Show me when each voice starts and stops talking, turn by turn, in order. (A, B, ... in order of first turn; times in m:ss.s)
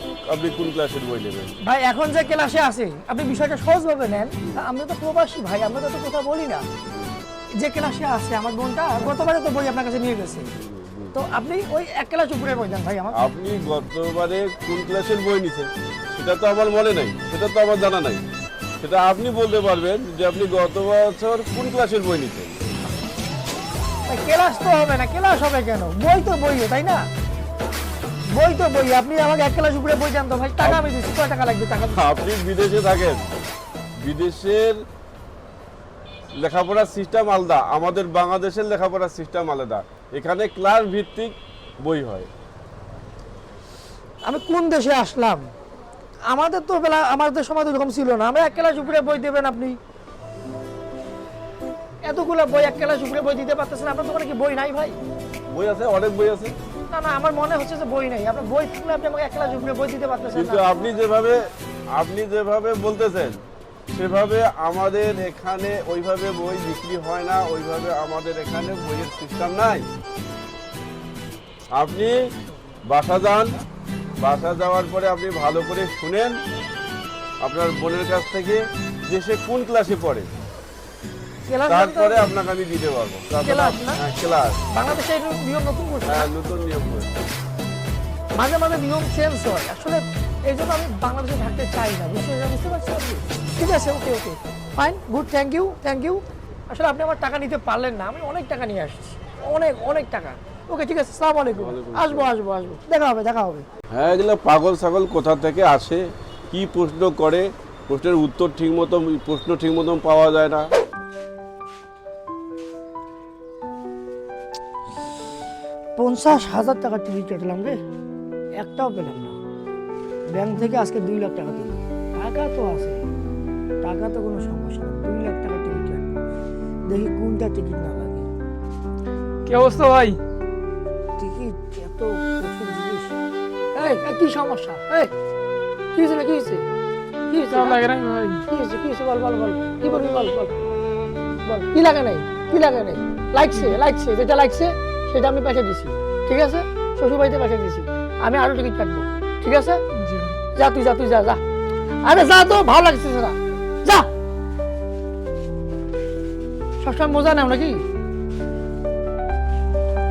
0:00.3-0:01.5 A
0:01.6-0:06.6 B
0:07.6-0:10.5 B
0:10.6-0:11.1 A
0:11.1-0:13.2 B
0:13.1-0:18.2 A
0:18.8-0:22.6 A
0:24.1-0:27.0 B
0:28.3-0:32.0 B
0:32.0-0:33.2 A
0:34.0-0:34.8 A
0:36.4-0:42.3 A
0:44.2-0:45.5 B
0:46.3-0:49.8 B
0:52.0-0:55.0 B
0:55.5-0:56.5 A
0:56.9-1:00.8 B
1:00.3-1:01.4 A
1:01.9-1:03.4 A
1:03.9-1:09.8 A
1:11.7-1:12.2 A
1:12.9-1:13.5 A
1:14.2-1:16.4 A
1:17.4-1:20.3 A
1:21.5-1:22.3 B
1:21.7-1:24.6 A
1:23.4-1:24.0 B
1:24.7-1:26.3 B
1:26.0-1:27.1 A
1:28.4-1:43.6 B
1:41.5-1:42.3 A
1:43.9-1:50.7 A
1:56.0-1:57.8 B
1:58.6-1:59.4 B
2:00.3-2:03.0 B
2:03.8-2:06.1 B
2:06.9-2:08.3 B
2:09.4-2:10.2 C
2:11.2-2:13.1 B
2:13.7-2:15.1 B
2:15.9-2:16.6 B
2:17.3-2:17.8 B
2:17.5-2:18.4 C
2:18.5-2:20.5 B
2:21.4-2:29.8 B
2:30.0-2:30.4 C
2:30.5-2:31.4 B
2:32.0-2:34.1 B
2:36.8-2:37.8 B